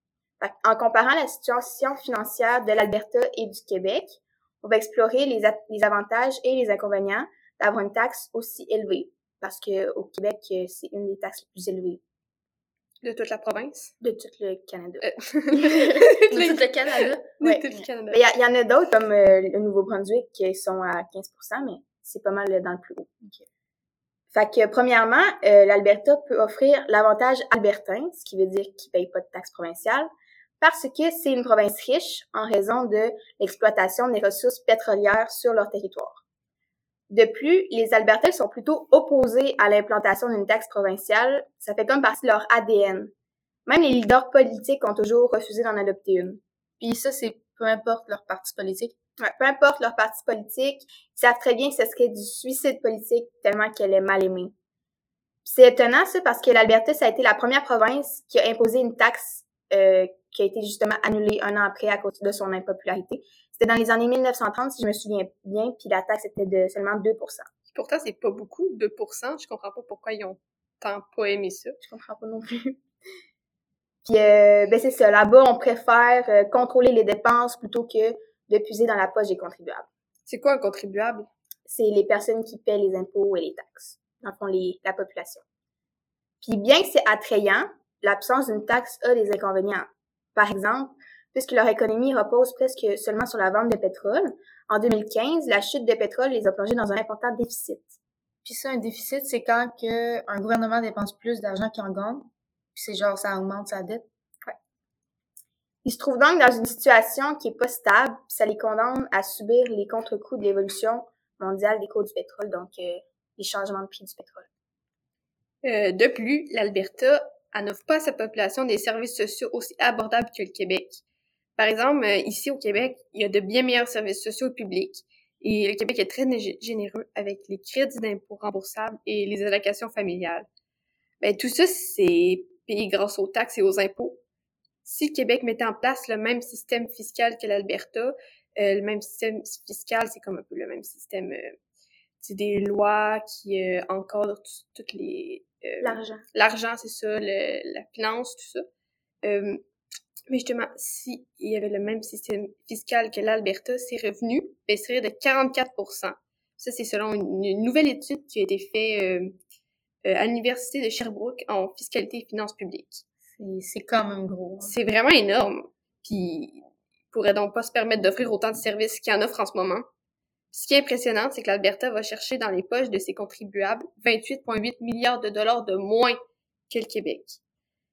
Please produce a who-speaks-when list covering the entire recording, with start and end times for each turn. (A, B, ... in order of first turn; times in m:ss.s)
0:00.4-0:12.0 A
0:13.0-0:13.9 B
0:14.0-0:16.0 A
0:15.0-0:16.6 B
0:16.3-0:17.3 C
0:17.4-0:18.2 B
0:17.4-0:23.1 A
0:24.3-0:30.1 A
0:30.6-0:36.2 A
0:37.1-0:43.1 A
0:43.7-0:46.4 A
0:46.8-0:48.9 C
0:49.2-0:54.5 A
0:55.4-1:07.5 A
1:07.7-1:11.8 B
1:11.8-1:12.8 A
1:14.0-1:19.9 A
1:20.2-1:21.3 B
1:21.7-1:25.4 A
1:26.4-1:38.0 A
1:38.4-1:44.0 C
1:45.8-1:54.5 A
1:55.6-2:01.0 B
2:01.6-2:10.4 B
2:11.2-2:14.2 B
2:14.8-2:21.5 B
2:22.2-2:28.6 B
2:25.8-2:26.2 A
2:29.2-2:29.6 B
2:30.3-2:39.3 B
2:40.0-2:43.0 B
2:43.4-2:44.7 C
2:44.6-2:49.8 B
2:50.5-2:56.2 B
2:56.7-2:57.4 B